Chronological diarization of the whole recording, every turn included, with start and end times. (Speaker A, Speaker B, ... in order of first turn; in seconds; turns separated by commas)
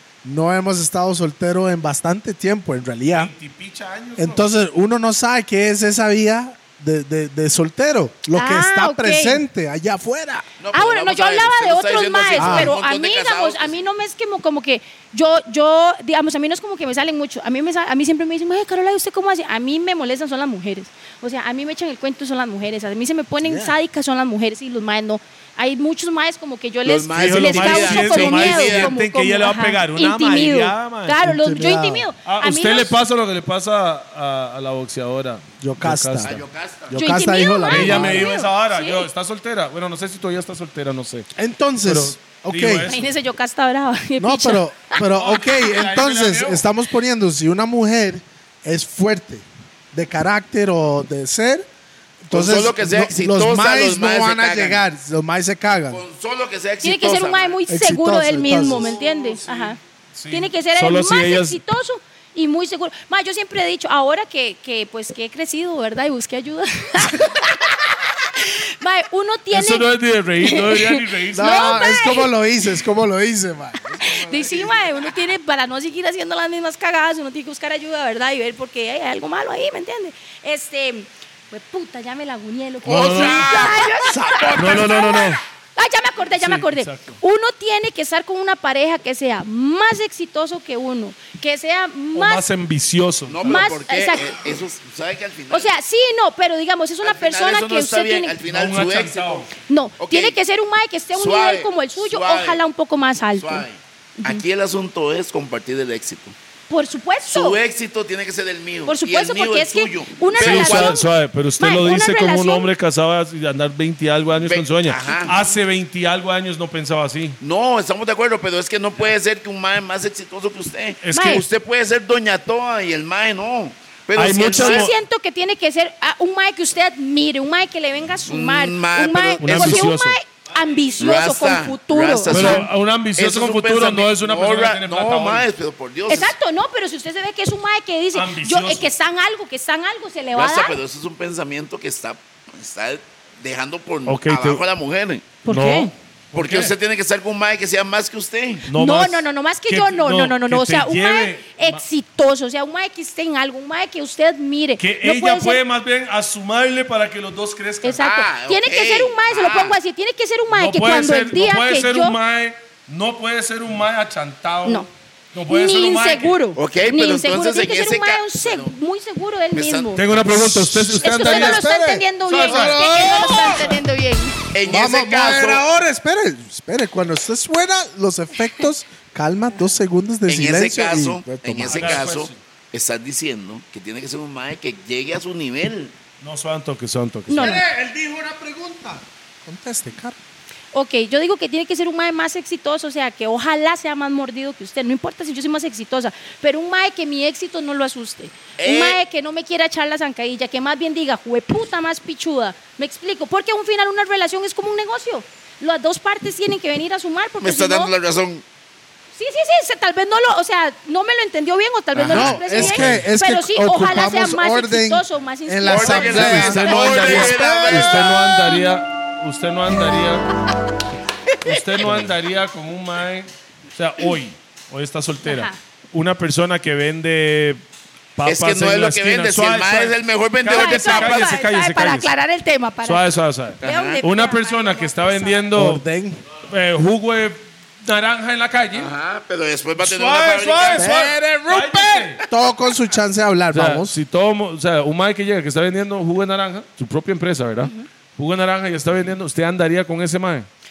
Speaker A: 0.2-3.3, Speaker B: 3.1-4.5, Speaker A: 4.2-10.4, Speaker C: 8.3-9.4, Speaker D: 10.6-13.8, Speaker C: 10.7-33.0, Speaker A: 12.4-12.7, Speaker A: 23.4-23.8, Speaker D: 26.9-28.9, Speaker B: 27.1-31.2, Speaker A: 31.2-32.1, Speaker B: 32.3-36.4, Speaker A: 35.6-38.3, Speaker D: 36.2-36.9, Speaker C: 36.9-39.1, Speaker B: 37.7-41.3, Speaker A: 41.4-42.9, Speaker B: 41.9-43.1, Speaker C: 42.8-45.0, Speaker A: 44.2-51.7, Speaker B: 45.1-46.6, Speaker A: 52.2-56.0, Speaker D: 52.3-54.8, Speaker D: 55.9-57.6, Speaker C: 56.8-59.8, Speaker A: 57.7-59.0, Speaker B: 59.4-61.6, Speaker C: 60.3-69.9, Speaker B: 69.5-71.8, Speaker C: 70.4-72.3, Speaker A: 71.3-75.1, Speaker C: 74.0-92.4, Speaker B: 82.8-83.7, Speaker D: 82.8-85.2, Speaker B: 84.5-85.4, Speaker B: 86.4-87.2, Speaker B: 92.1-93.7, Speaker D: 93.3-95.7, Speaker C: 93.4-94.4, Speaker C: 95.5-98.4, Speaker D: 97.0-100.4, Speaker B: 98.5-99.5, Speaker C: 99.7-103.7, Speaker D: 101.1-102.6, Speaker D: 103.3-106.4, Speaker C: 106.7-107.6, Speaker D: 107.3-111.0, Speaker C: 108.9-111.1, Speaker B: 110.4-117.4, Speaker C: 111.6-112.7, Speaker D: 114.4-115.3, Speaker D: 117.4-124.9, Speaker B: 121.0-121.5, Speaker C: 121.1-121.4, Speaker B: 124.2-124.9, Speaker C: 124.5-132.7, Speaker D: 128.3-129.9, Speaker B: 129.4-130.2, Speaker D: 131.0-136.3, Speaker B: 132.3-135.5, Speaker C: 136.1-140.8, Speaker B: 138.1-138.9, Speaker D: 140.3-145.3, Speaker B: 144.1-144.6, Speaker C: 145.4-145.9, Speaker B: 145.4-146.7, Speaker D: 146.3-148.7, Speaker B: 148.7-151.8, Speaker C: 148.7-155.6, Speaker B: 154.8-158.0, Speaker C: 157.8-162.2, Speaker D: 158.0-159.8, Speaker B: 160.5-166.4, Speaker C: 165.5-170.0, Speaker D: 166.6-168.7, Speaker D: 169.5-170.3, Speaker B: 169.9-171.7, Speaker A: 170.5-173.8, Speaker C: 171.0-174.4, Speaker B: 172.3-172.9, Speaker D: 174.5-175.6, Speaker A: 174.7-182.1, Speaker D: 180.3-185.9, Speaker B: 181.7-182.4, Speaker B: 186.2-187.6, Speaker C: 187.3-187.6, Speaker A: 187.3-190.2, Speaker C: 190.7-207.9, Speaker D: 198.6-199.0, Speaker D: 207.4-208.4, Speaker C: 209.2-216.6, Speaker D: 211.9-213.1, Speaker A: 212.1-218.1, Speaker D: 215.6-218.3, Speaker B: 216.1-220.3, Speaker C: 218.4-218.7, Speaker B: 221.4-227.6, Speaker D: 221.8-222.1, Speaker C: 225.2-225.6, Speaker B: 228.2-232.1, Speaker D: 228.3-231.3, Speaker C: 230.5-233.0, Speaker B: 232.8-235.8, Speaker D: 233.6-234.0, Speaker C: 233.6-235.5, Speaker A: 235.5-236.2, Speaker B: 236.5-238.9, Speaker D: 238.7-240.9, Speaker B: 239.8-242.2, Speaker A: 240.7-243.9, Speaker B: 243.5-250.5, Speaker C: 247.6-247.9